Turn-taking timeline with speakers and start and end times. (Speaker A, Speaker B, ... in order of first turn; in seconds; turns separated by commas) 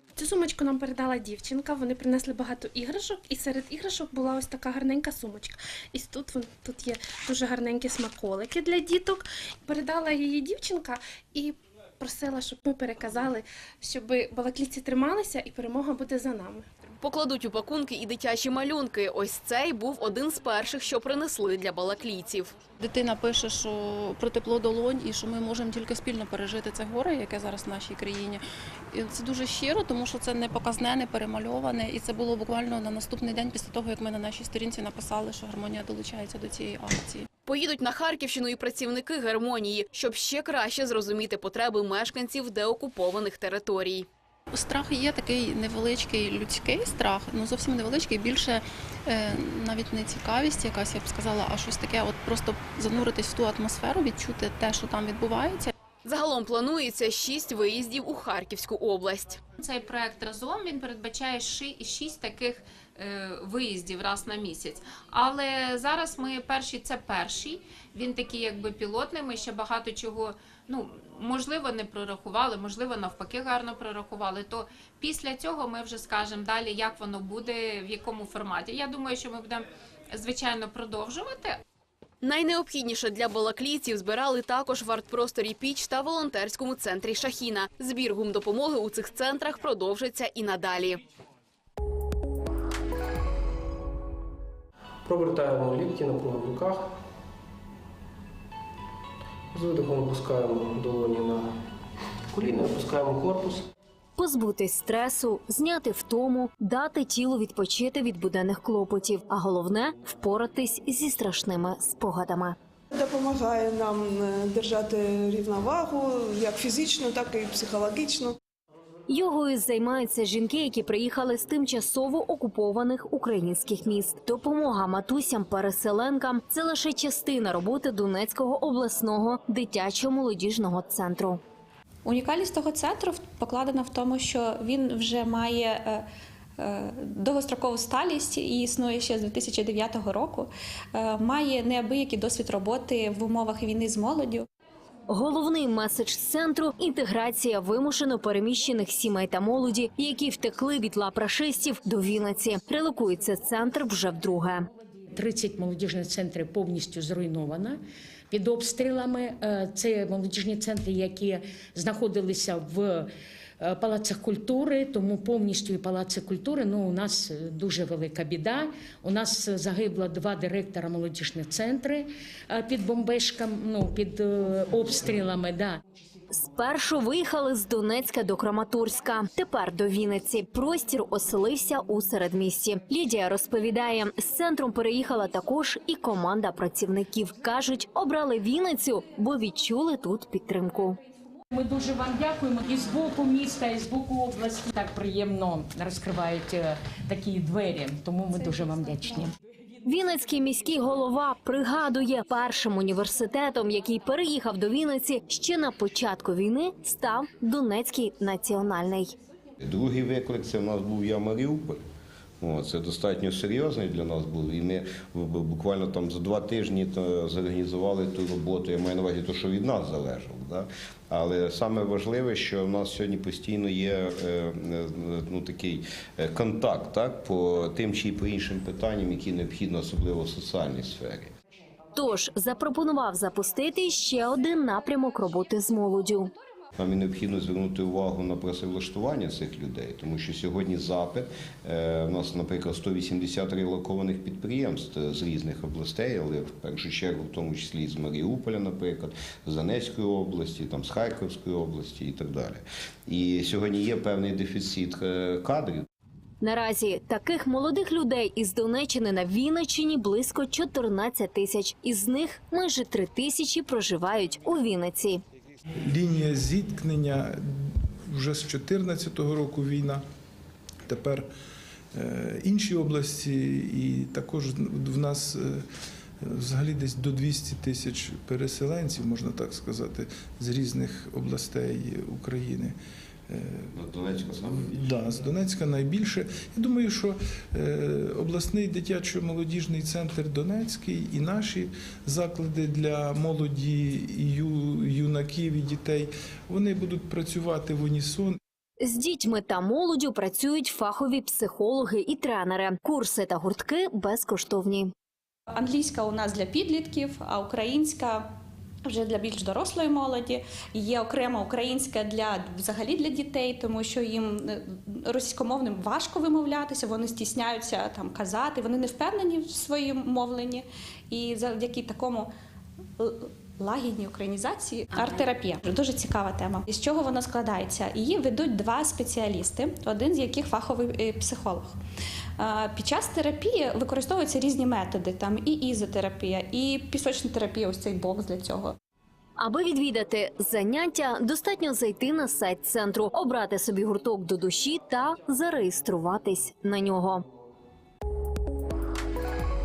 Speaker A: 0.2-16.7, Speaker B: 17.0-22.6, Speaker C: 22.8-37.3, Speaker B: 37.5-44.1, Speaker C: 44.5-55.7, Speaker B: 56.0-59.4, Speaker D: 59.6-81.6, Speaker B: 82.2-91.0, Speaker E: 95.0-96.9, Speaker E: 99.5-101.5, Speaker E: 102.3-103.7, Speaker F: 104.2-112.6, Speaker G: 112.9-118.4, Speaker F: 119.1-131.4, Speaker H: 132.1-136.1, Speaker H: 136.6-144.4, Speaker F: 145.1-154.7, Speaker I: 155.1-157.8, Speaker I: 158.3-163.1, Speaker I: 163.6-175.8, Speaker F: 176.3-191.0, Speaker I: 191.5-199.3, Speaker F: 199.8-209.1, Speaker J: 209.6-211.8, Speaker J: 212.4-231.3, Speaker F: 231.9-236.3, Speaker J: 236.8-255.9, Speaker F: 256.4-265.2, Speaker K: 265.8-270.0, Speaker K: 270.9-271.3, Speaker K: 271.9-275.6, Speaker K: 276.2-282.8, Speaker K: 283.3-283.7, Speaker J: 283.7-284.8, Speaker K: 284.4-298.4, Speaker F: 298.8-304.9, Speaker H: 305.5-308.3, Speaker H: 308.9-322.3, Speaker H: 323.0-331.8, Speaker H: 332.4-338.8, Speaker F: 339.4-347.2